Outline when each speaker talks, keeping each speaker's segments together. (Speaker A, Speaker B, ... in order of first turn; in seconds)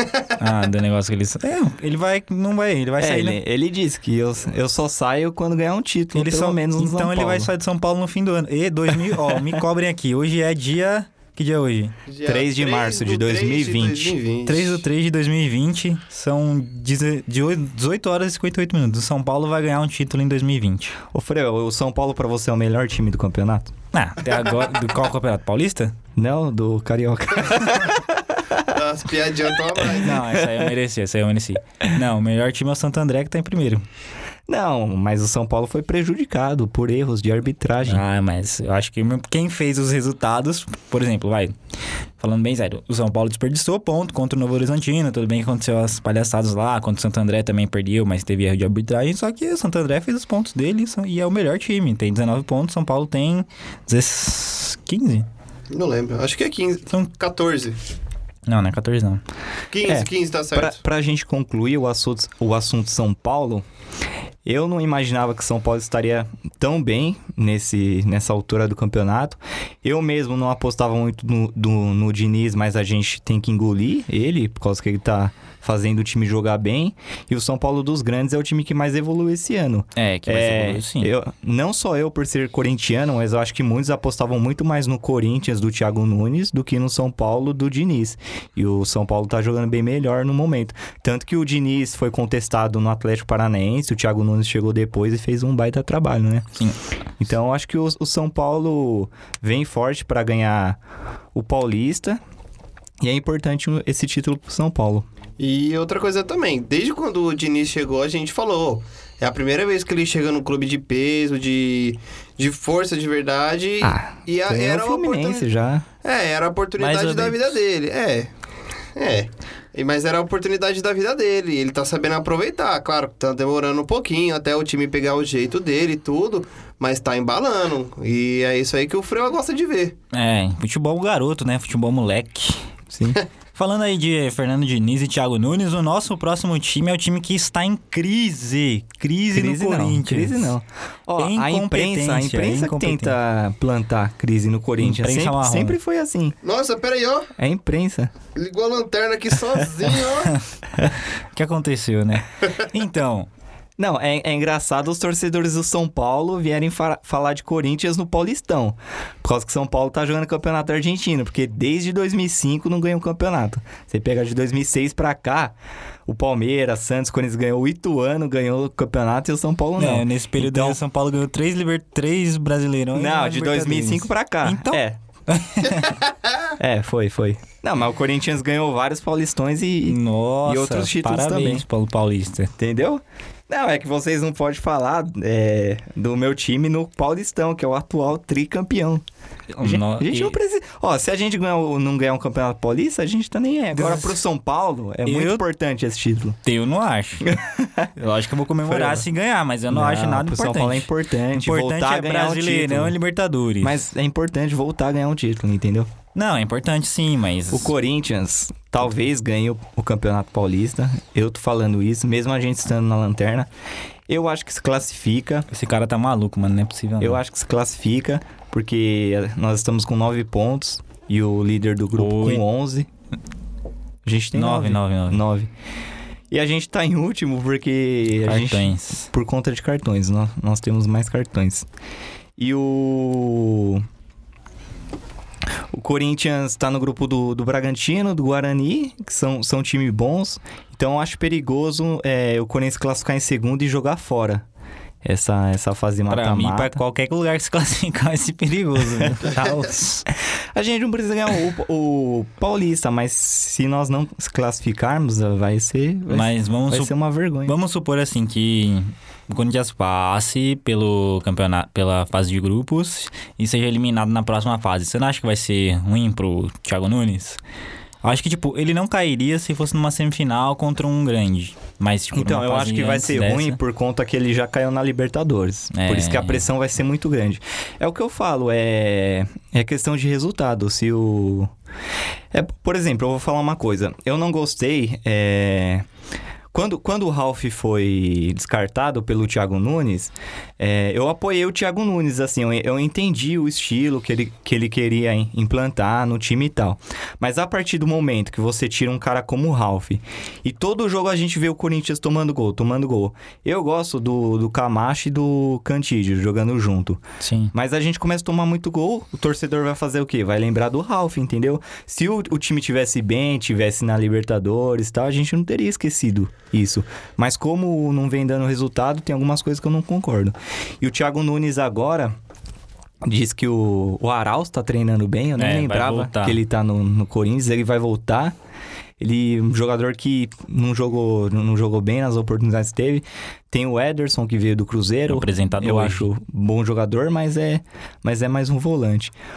Speaker A: 0.4-3.4, 6.1-11.9, 14.4-21.0, 23.9-26.0, 29.8-33.8, 37.8-41.5, 42.2-55.2, 58.5-59.2, 80.0-81.1, 116.8-117.5, 130.1-132.6, 133.5-140.5, 141.2-143.1, 144.8-145.8, 151.3-153.3, 169.8-176.0, 179.8-182.5, 189.5-190.3, 193.7-194.2, 195.0-195.4, 196.4-197.4, 197.9-203.8, 206.1-207.7, 215.5-217.2, 221.9-222.4, 224.3-225.2, 228.2-229.1, 246.1-250.1, 256.1-267.4, 268.0-273.6, 275.7-276.5, 307.2-307.5, 325.4-326.4, 335.1-336.1
Speaker B: 3.0-7.5, 9.0-9.6, 12.2-14.2, 21.1-23.7, 26.1-28.7, 30.1-30.6, 34.5-38.0, 59.8-63.6, 64.4-96.5, 97.2-100.8, 101.3-102.2, 103.0-105.0, 113.8-115.9, 132.9-133.2, 139.3-146.4, 147.4-148.1, 153.8-165.5, 166.1-170.8, 172.9-175.0, 176.6-181.6, 182.6-189.0, 189.6-196.4, 197.3-197.9, 198.7-199.1, 199.7-202.9, 203.6-205.9, 207.5-213.5, 214.1-215.5, 217.0-222.9, 224.0-225.5, 226.3-231.7, 232.4-233.8, 235.7-244.4, 245.0-246.8, 248.9-249.2, 250.5-257.5, 272.1-281.5, 282.3-285.9, 286.5-307.0, 307.5-322.1, 323.0-328.3, 329.0-339.1
Speaker C: 12.1-14.8, 28.7-30.2, 55.7-57.8, 59.7-60.8, 105.4-115.4, 116.0-118.3, 119.0-129.9, 146.4-147.3, 148.3-150.3